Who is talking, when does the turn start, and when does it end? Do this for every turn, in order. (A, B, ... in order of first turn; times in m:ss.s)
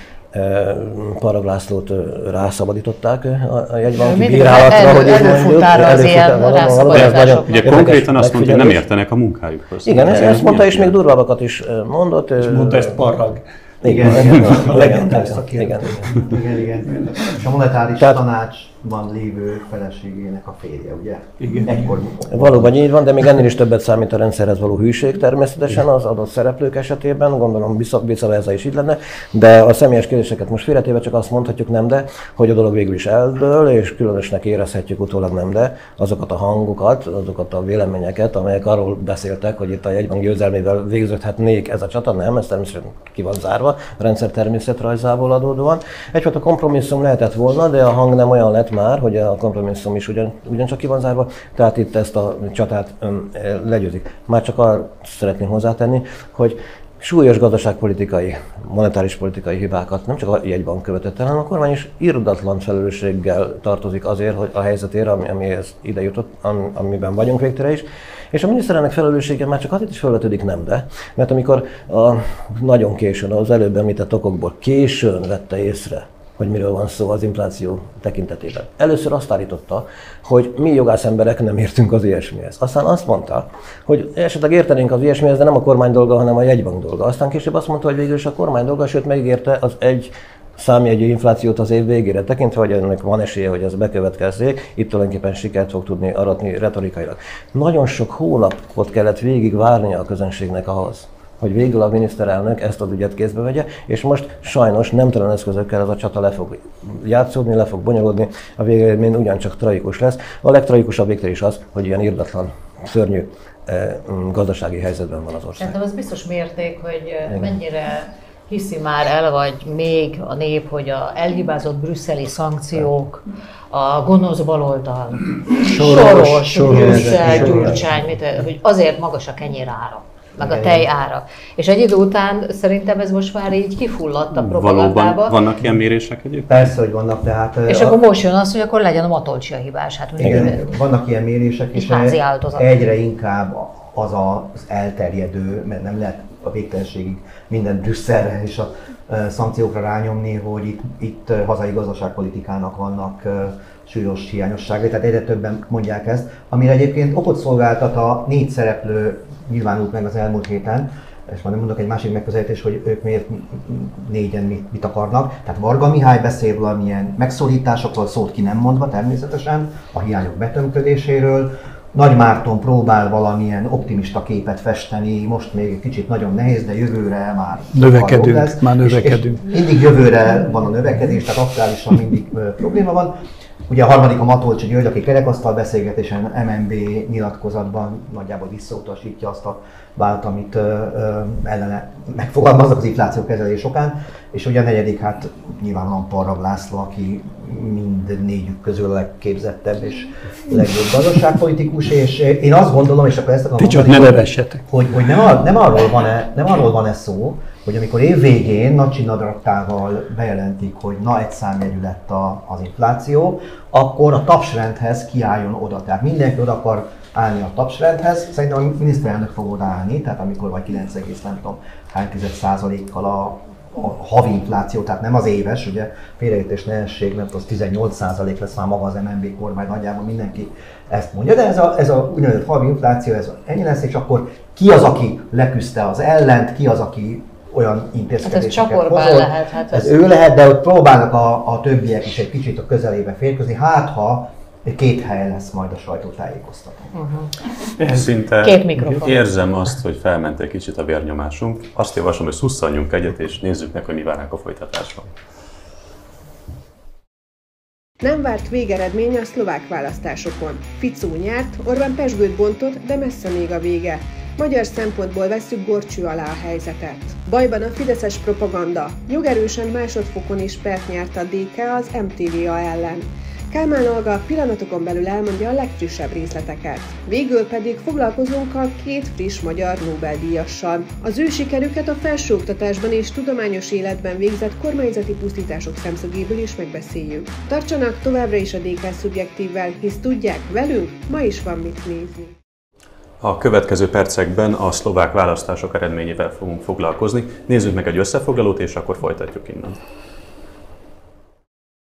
0:00.3-0:08.8 A
0:04.0-0:07.6 B
0:06.9-0:10.9 C
0:09.8-0:13.0 A
0:12.4-0:16.2 D
0:13.8-0:16.1 A
0:13.8-0:22.8 E
0:21.4-0:21.9 D
0:22.3-1:55.8 A
1:55.6-2:15.4 B
1:57.2-1:57.6 A
2:05.7-2:07.8 E
2:05.7-2:07.8 D
2:10.4-2:10.9 E
2:14.4-2:16.7 C
2:16.5-2:18.0 E
2:17.7-2:20.7 B
2:20.2-3:03.2 E
2:21.7-2:22.6 B
2:57.7-2:59.4 D
3:03.7-4:06.9 E
3:23.6-3:24.6 D
3:58.2-3:59.9 B
4:06.9-4:07.3 B
4:07.8-4:08.1 D
4:07.9-4:15.1 C
4:08.4-4:09.2 B
4:18.0-4:52.3 F
4:53.2-4:59.8 C